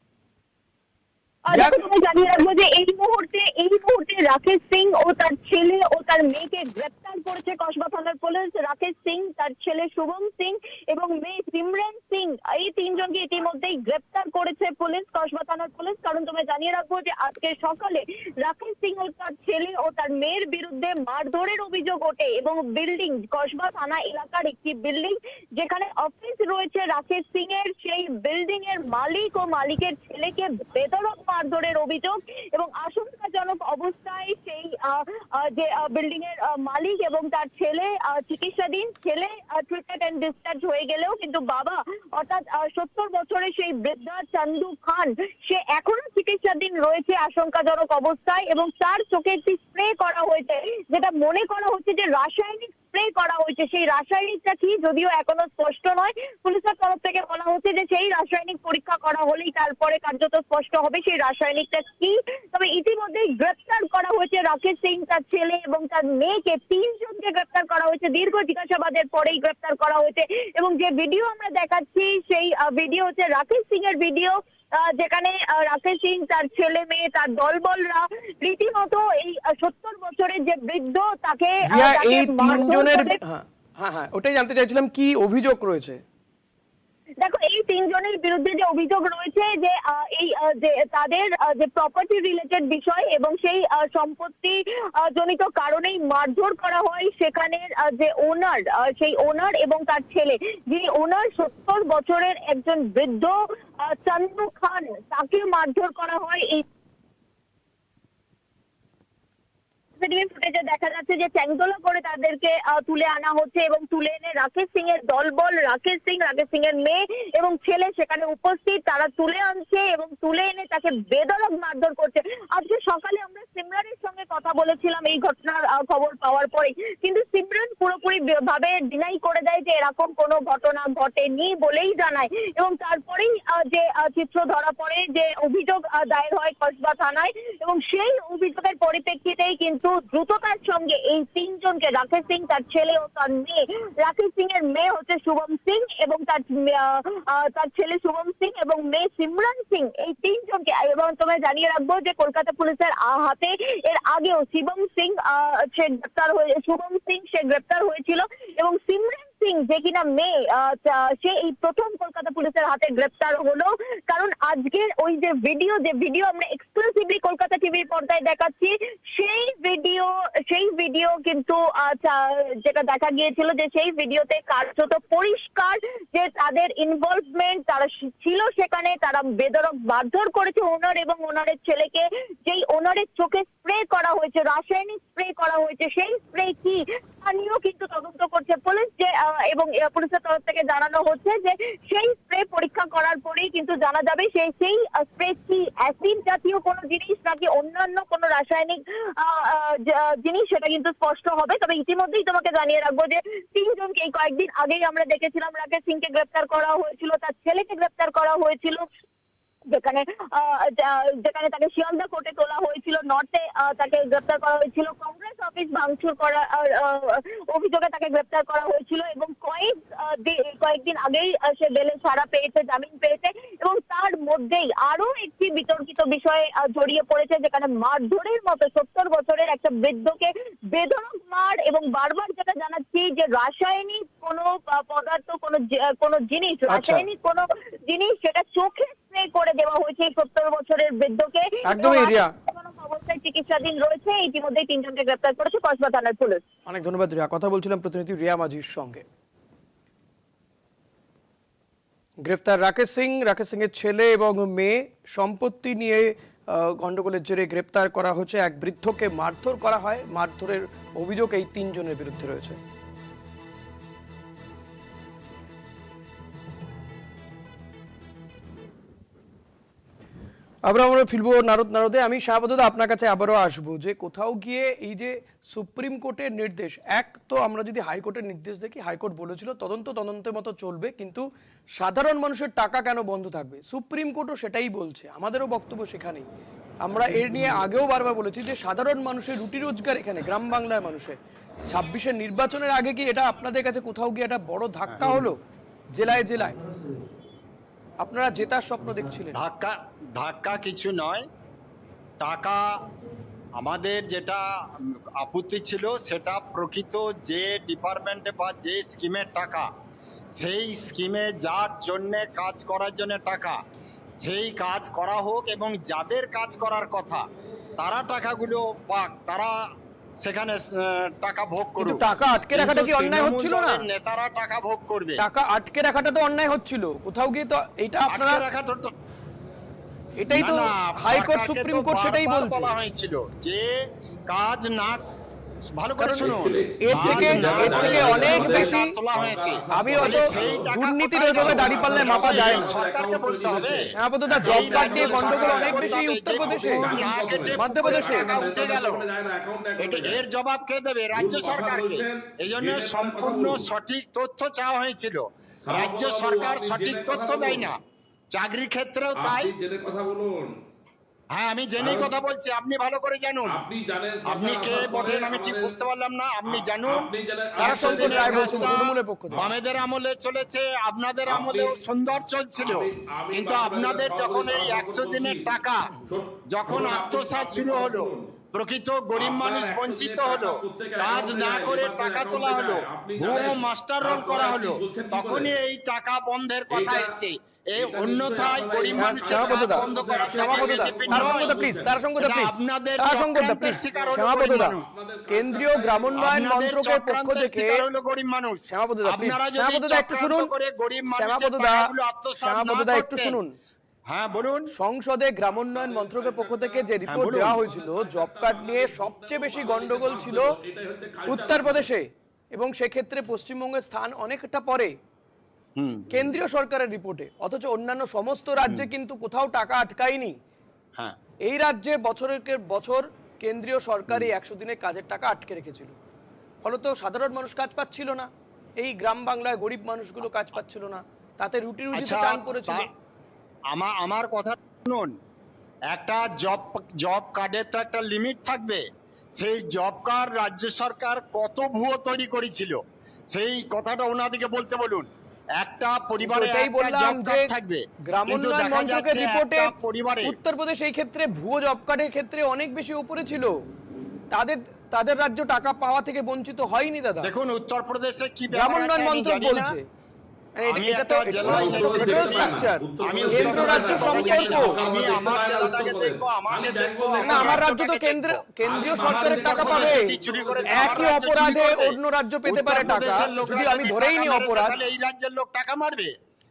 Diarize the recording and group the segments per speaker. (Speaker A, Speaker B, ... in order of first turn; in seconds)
Speaker A: 1.5-83.2, 87.2-106.7, 110.0-208.8, 209.7-246.4
Speaker B: 1.5-1.8, 81.7-86.0, 236.7-237.1, 241.7-242.3, 246.7-249.0, 252.2-262.6, 270.6-281.2, 281.8-286.2, 286.8-291.2, 291.7-295.4, 295.9-296.6, 298.0-299.4, 321.8-323.8, 325.2-328.4, 330.2-332.7, 336.0-338.9, 339.7-342.7, 343.9-346.9, 347.6-348.3, 367.6-369.4, 389.0-389.8, 390.4-394.7, 395.3-397.8, 398.7-400.5, 401.2-403.6, 404.7-410.5, 411.3-414.9, 416.1-420.4, 421.4-425.9, 426.6-432.9, 446.2-447.5, 448.1-453.6, 454.3-457.3, 458.5-459.8, 460.6-464.7, 467.2-470.1, 470.7-474.7
Speaker C: 294.9-295.2, 299.3-301.3, 302.2-302.6, 303.6-309.7, 310.3-313.6, 314.2-317.2, 317.8-319.5, 320.2-325.2, 328.1-328.9, 330.3-335.0, 335.7-343.9, 344.4-349.0, 349.8-357.8, 358.3-359.5, 361.3-363.6, 364.3-375.9, 376.5-391.5, 392.2-394.9, 396.2-403.4, 404.1-404.7, 407.1-407.6, 415.8-416.3, 431.9-432.9, 433.7-435.1, 435.9-438.8, 439.4-450.4, 457.2-459.7, 460.7-476.1
Speaker D: 336.2-340.6, 341.3-350.2, 351.1-353.7, 355.6-357.7, 359.1-360.5, 361.8-362.1, 363.5-365.8, 366.4-369.5, 371.3-371.8, 372.6-375.5, 376.0-378.3, 379.1-385.5, 386.7-387.2, 387.8-391.9, 393.6-396.3, 405.6-411.9, 461.4-467.6, 468.6-471.2